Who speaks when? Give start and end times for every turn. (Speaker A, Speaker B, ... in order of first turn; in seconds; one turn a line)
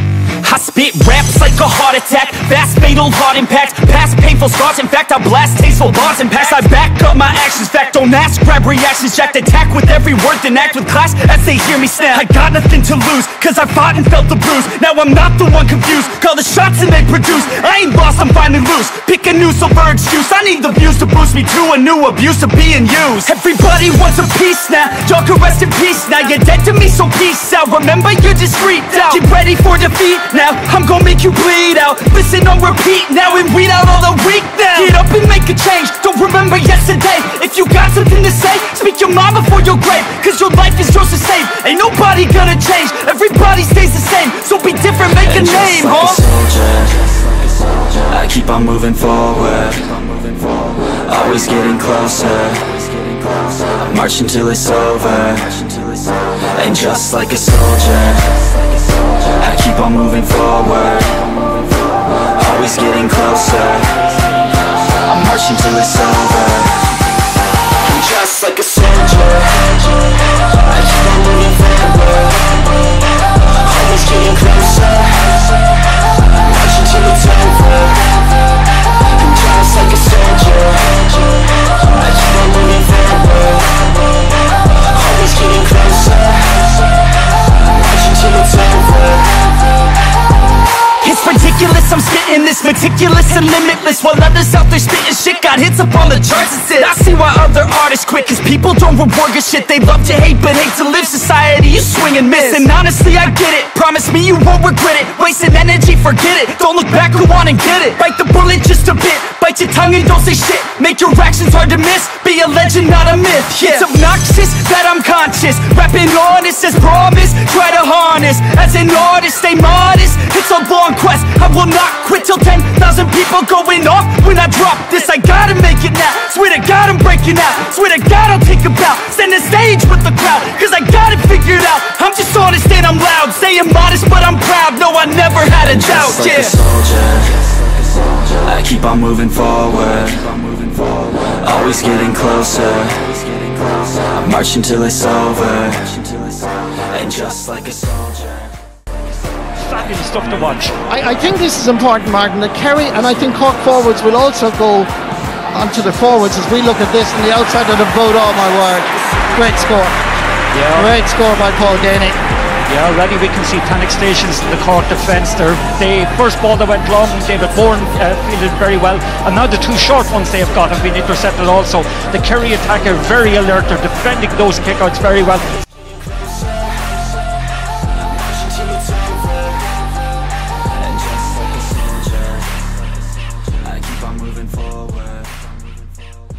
Speaker A: 0.4-46.4
Speaker B: 45.4-58.5
Speaker B: 59.3-61.2
Speaker B: 62.4-64.0
Speaker B: 65.1-66.7
Speaker A: 68.0-69.4
Speaker A: 71.2-71.8
Speaker A: 74.1-74.7
Speaker A: 79.8-80.6
Speaker A: 91.0-136.7
Speaker B: 136.0-146.3
Speaker B: 146.9-148.4
Speaker C: 149.7-150.8
Speaker D: 150.9-154.9
Speaker D: 155.5-160.0
Speaker C: 160.5-160.9
Speaker D: 160.7-162.2
Speaker C: 162.7-175.5
Speaker B: 180.9-182.5
Speaker B: 183.6-185.4